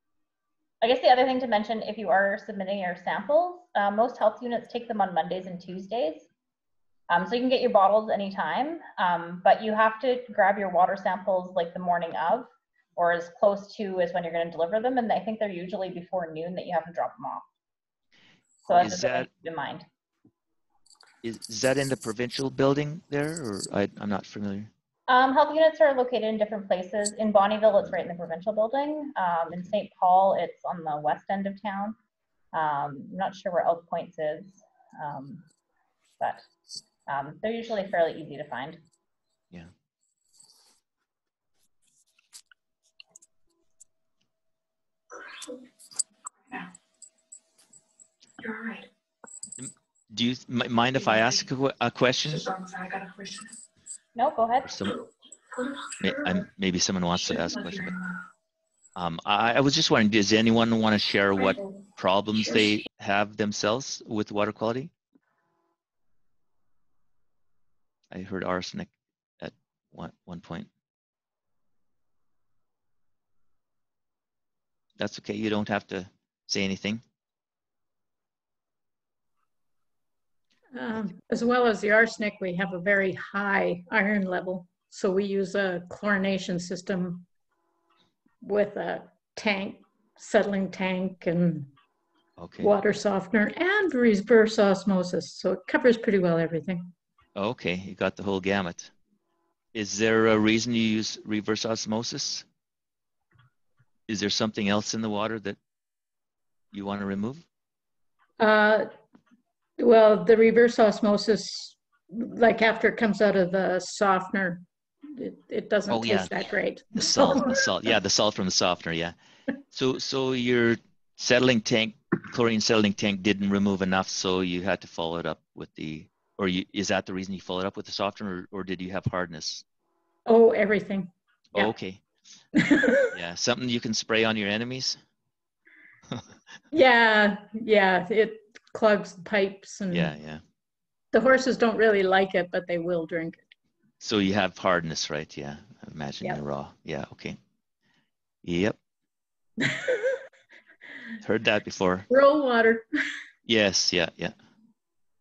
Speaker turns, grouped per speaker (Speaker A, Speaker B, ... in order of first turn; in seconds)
Speaker A: 0.8-6.3, 7.1-17.4, 18.6-19.9, 25.1-32.0, 32.5-35.5, 37.1-38.8, 54.2-54.7
Speaker B: 18.7-19.3, 21.2-24.7, 49.6-52.5, 54.6-55.0, 56.0-58.0, 59.0-64.9, 68.1-70.7, 75.0-77.0, 92.4-92.7, 97.4-98.9, 99.7-102.5, 104.1-105.6, 106.7-107.5, 115.9-116.4, 116.9-119.2, 119.7-129.6, 131.6-132.0, 133.1-135.0, 139.9-140.4, 144.0-147.4, 148.4-148.8, 151.2-152.1, 153.5-154.4
Speaker C: 48.4-48.9, 52.3-53.5, 54.9-56.5, 57.2-58.2
Speaker D: 80.7-87.3, 88.4-91.7, 92.6-96.9, 108.4-108.9, 109.8-117.6, 130.3-131.7, 132.6-133.1, 136.7-140.1, 141.1-143.4, 149.6-150.2, 152.1-152.9